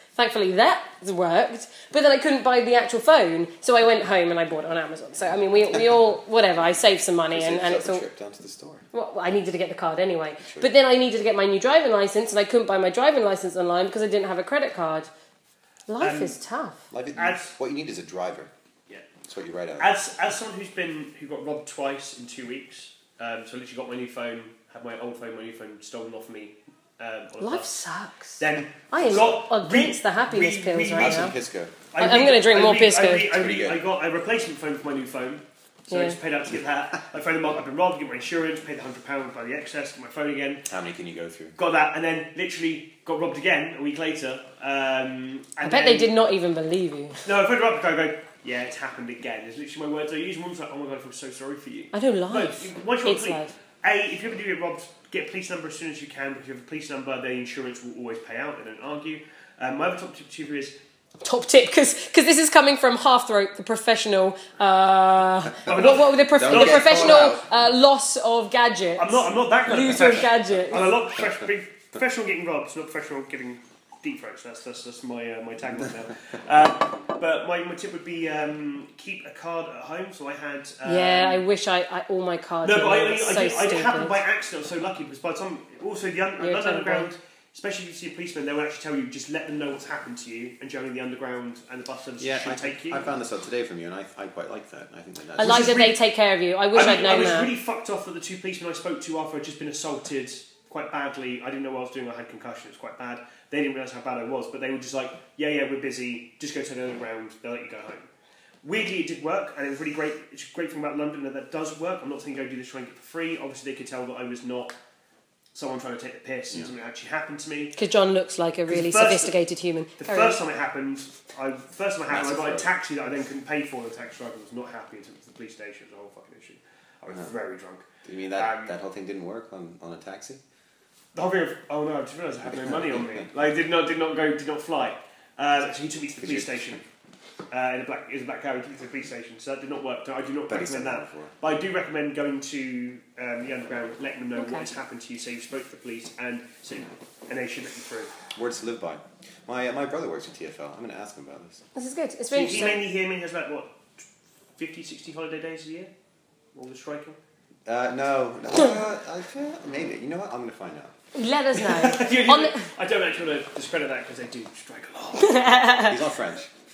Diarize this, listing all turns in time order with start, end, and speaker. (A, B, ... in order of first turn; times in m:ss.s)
0:00.2-0:08.0 A
0:07.3-0:08.8 B
0:08.9-0:15.1 A
0:10.4-0:10.7 B
0:15.9-0:16.8 A
0:16.0-0:16.3 C
0:16.9-0:18.5 B
0:17.2-0:17.6 C
0:19.2-0:19.9 B
0:19.8-0:27.8 C
0:27.4-0:31.3 A
0:28.4-0:31.4 C
0:31.0-0:31.8 B
0:31.9-0:40.6 C
0:32.0-0:33.4 A
0:33.3-0:33.8 B
0:35.9-0:36.2 A
0:40.7-0:41.6 B
0:41.6-0:46.1 C
0:45.6-0:47.3 A
0:47.2-1:00.8 C
0:51.9-0:53.5 A
1:01.2-1:11.0 A
1:05.7-1:07.4 C
1:06.4-1:07.4 B
1:09.0-1:21.4 C
1:20.8-1:24.2 A
1:22.6-1:33.0 C
1:26.4-1:27.1 A
1:32.2-1:35.8 B
1:35.4-1:36.0 C
1:35.4-1:37.5 A
1:36.7-1:48.1 C
1:48.6-1:54.8 C
1:55.5-1:57.8 C
1:57.8-2:00.4 A
1:58.7-1:59.4 C
2:00.0-2:08.8 C
2:02.1-2:02.7 B
2:08.0-2:10.4 B
2:11.1-2:16.8 C
2:12.7-2:13.2 B
2:16.2-2:16.5 B
2:17.5-2:28.2 C
2:20.5-2:21.3 B
2:24.4-2:24.7 A
2:28.4-2:31.6 B
2:31.8-2:32.8 A
2:32.3-2:34.0 C
2:34.6-2:35.9 C
2:36.6-2:37.2 C
2:37.7-2:40.9 B
2:41.1-2:42.7 A
2:41.6-2:45.6 C
2:45.2-2:46.0 A
2:45.8-2:46.5 B